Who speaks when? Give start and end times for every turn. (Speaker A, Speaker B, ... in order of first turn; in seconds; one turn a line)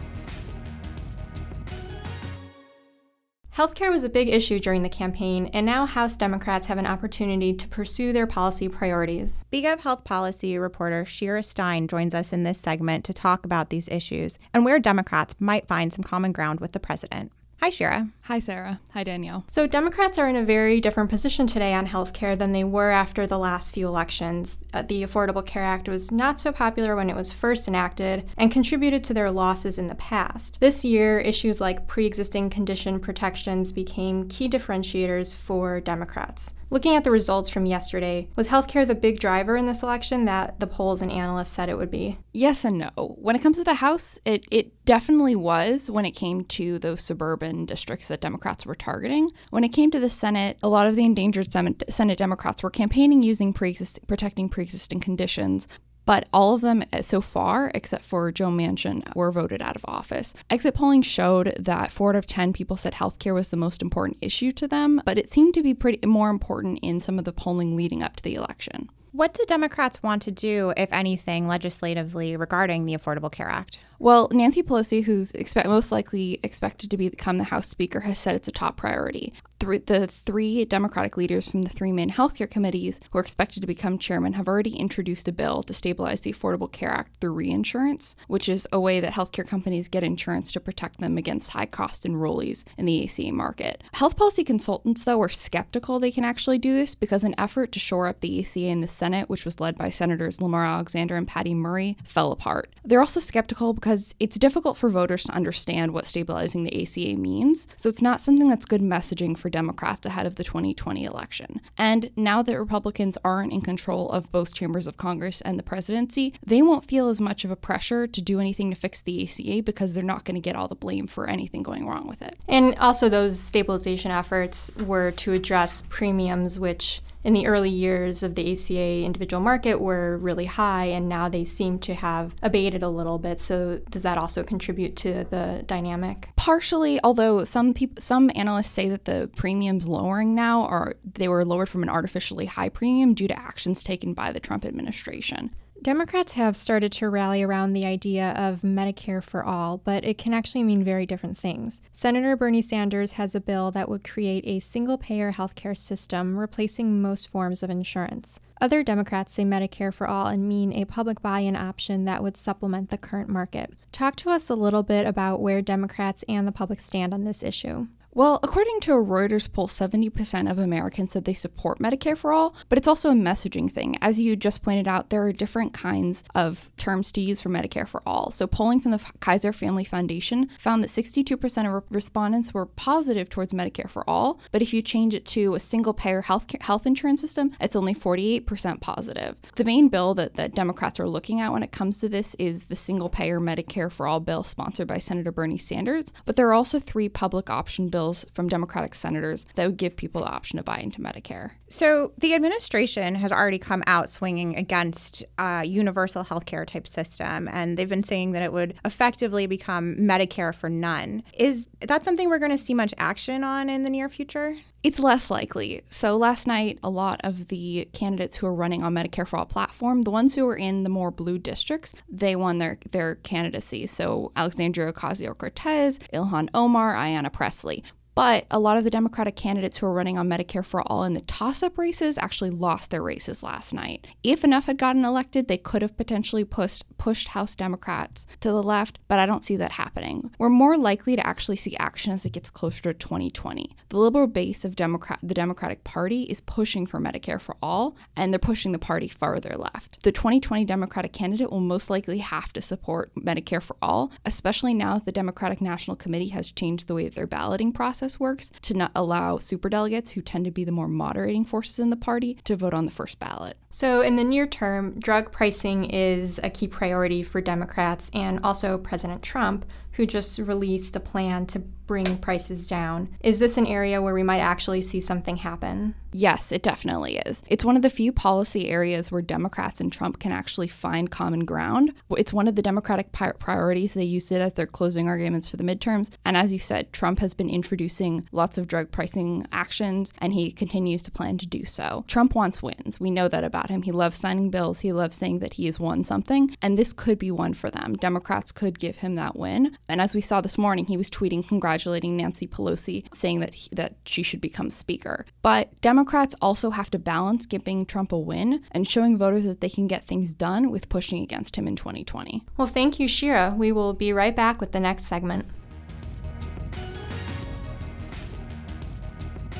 Speaker A: 3.5-9.4
Speaker B: 9.5-18.1
Speaker C: 18.2-19.4
Speaker A: 19.5-42.2
Speaker C: 42.3-68.9
Speaker B: 69.1-73.8
Speaker C: 74.0-122.3
Speaker A: 122.5-136.3
Speaker C: 136.4-145.5
Speaker A: 145.8-167.9
Speaker C: 168.1-201.5
Speaker B: 201.7-214.6
Speaker C: 214.8-263.6
Speaker A: 263.7-276.0
Speaker C: 276.1-312.4
Speaker A: 312.6-315.5